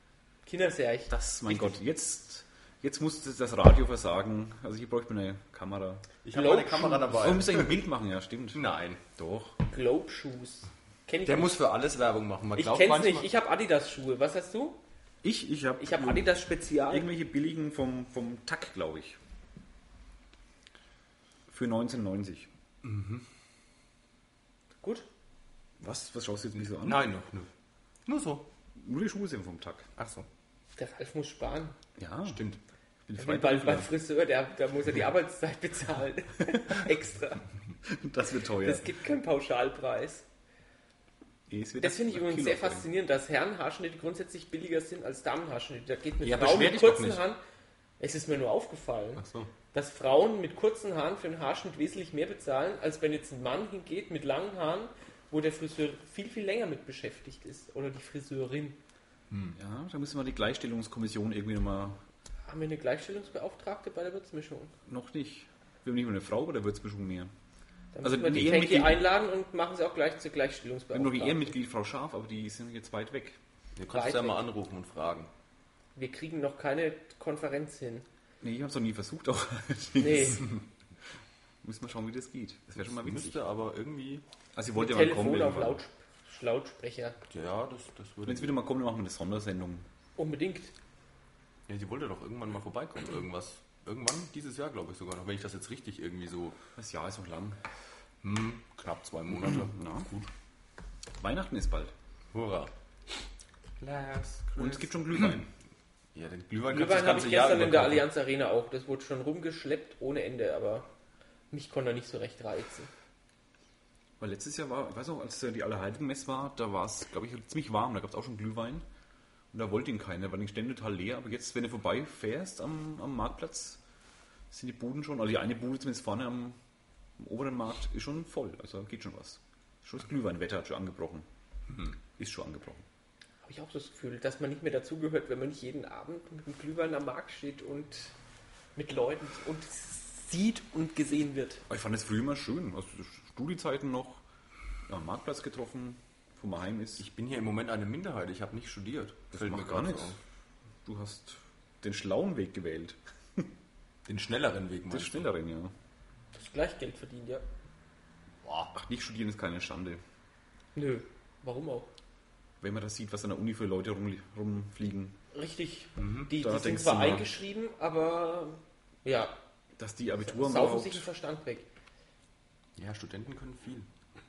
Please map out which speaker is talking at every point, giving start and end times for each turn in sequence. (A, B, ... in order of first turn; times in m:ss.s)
0:00.4-0:01.1 A
0:01.1-0:06.1 B
0:06.2-0:07.8 C
0:06.3-0:07.3 A
0:07.1-0:09.6 B
0:08.5-0:09.0 C
0:09.7-0:11.7 A
0:11.2-0:13.3 C
0:12.6-0:14.8 A
0:15.2-0:19.2 B
0:15.8-0:17.1 A
0:21.5-0:22.5 B
0:22.8-0:23.2 C
0:25.8-0:27.1 B
0:26.6-0:27.5 C
0:28.0-0:28.5 C
0:28.8-0:29.9 B
0:30.0-0:30.2 C
0:30.8-0:31.8 A
0:32.0-0:32.4 B
0:32.2-0:32.6 C
0:33.1-0:33.9 B
0:33.1-0:37.4 A
0:37.8-0:38.9 B
0:38.6-0:40.2 A
0:41.5-0:42.8 B
0:41.8-0:47.4 A
0:46.2-0:47.2 C
0:48.0-0:58.8 A
0:49.2-0:49.5 C
0:59.3-0:59.6 C
0:59.6-1:02.0 B
1:02.5-1:04.7 A
1:04.9-1:07.3 B
1:07.9-1:11.5 A
1:08.0-1:09.0 B
1:10.9-1:13.4 B
1:13.8-1:15.3 C
1:13.9-1:14.4 A
1:15.9-1:18.1 A
1:18.4-1:20.6 B
1:20.0-1:20.5 A
1:21.6-1:23.4 B
1:22.8-1:24.2 C
1:24.5-1:25.8 B
1:24.7-1:27.2 A
1:27.3-1:28.6 C
1:28.2-1:29.9 B
1:30.2-1:30.7 A
1:31.7-1:36.6 C
1:36.8-1:37.6 B
1:38.2-1:40.3 C
1:39.4-1:40.1 B
1:41.2-1:41.9 B
1:42.3-1:42.7 C
1:43.8-1:45.4 C
1:44.6-1:45.5 B
1:46.1-1:48.1 C
1:46.7-1:50.9 A
1:51.5-1:52.9 A
1:54.2-1:58.8 B
1:59.5-2:03.8 B
2:04.5-2:06.6 B
2:07.2-2:11.3 B
2:12.2-2:12.8 B
2:13.4-2:18.1 A
2:18.8-2:21.6 A
2:21.7-2:24.2 B
2:24.9-2:27.0 B
2:27.0-2:30.2 C
2:29.3-2:30.2 B
2:30.8-2:33.5 B
2:34.0-2:35.3 C
2:34.9-2:35.7 B
2:36.3-2:37.4 A
2:38.4-2:38.7 C
2:38.7-2:40.0 B
2:40.7-2:41.9 A
2:42.6-2:45.2 B
2:45.3-2:49.3 A
2:46.0-2:46.3 C
2:46.3-2:47.3 B
2:49.8-2:51.0 B
2:50.3-2:51.7 A
2:52.8-2:53.9 C